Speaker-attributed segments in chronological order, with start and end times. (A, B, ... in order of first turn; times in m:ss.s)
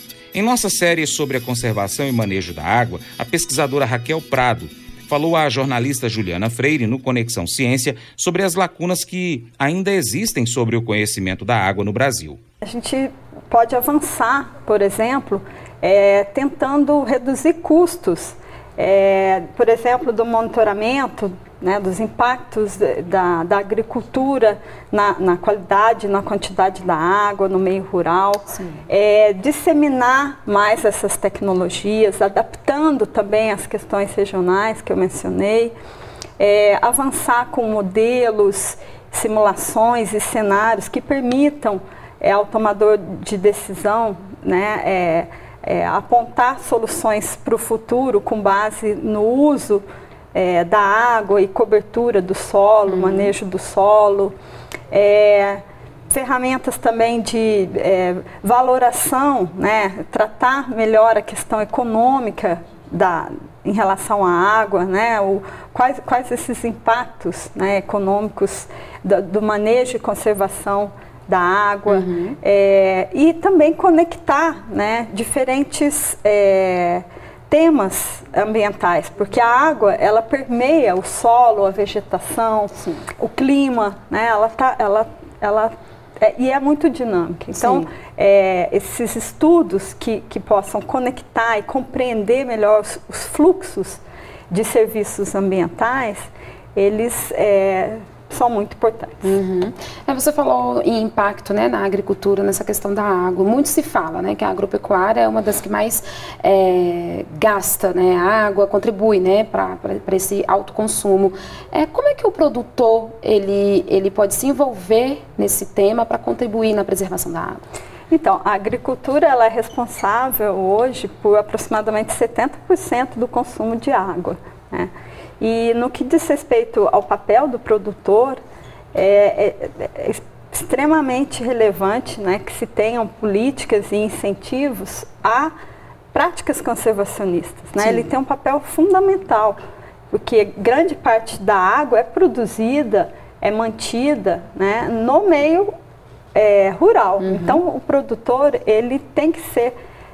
0:00.3-0:12.4 A
0:12.6-0:35.7 B
0:28.5-0:28.8 C
0:36.4-0:54.3 B
0:52.9-0:53.3 C
0:54.9-1:39.4 B
1:11.9-1:12.4 C
1:27.5-1:27.9 C
1:39.2-1:57.6 C
1:58.1-2:08.4 B
2:08.9-2:15.5 B
2:16.1-2:19.6 B
2:17.8-2:18.1 C
2:20.1-2:25.7 B
2:26.3-2:29.7 B
2:27.2-2:27.6 C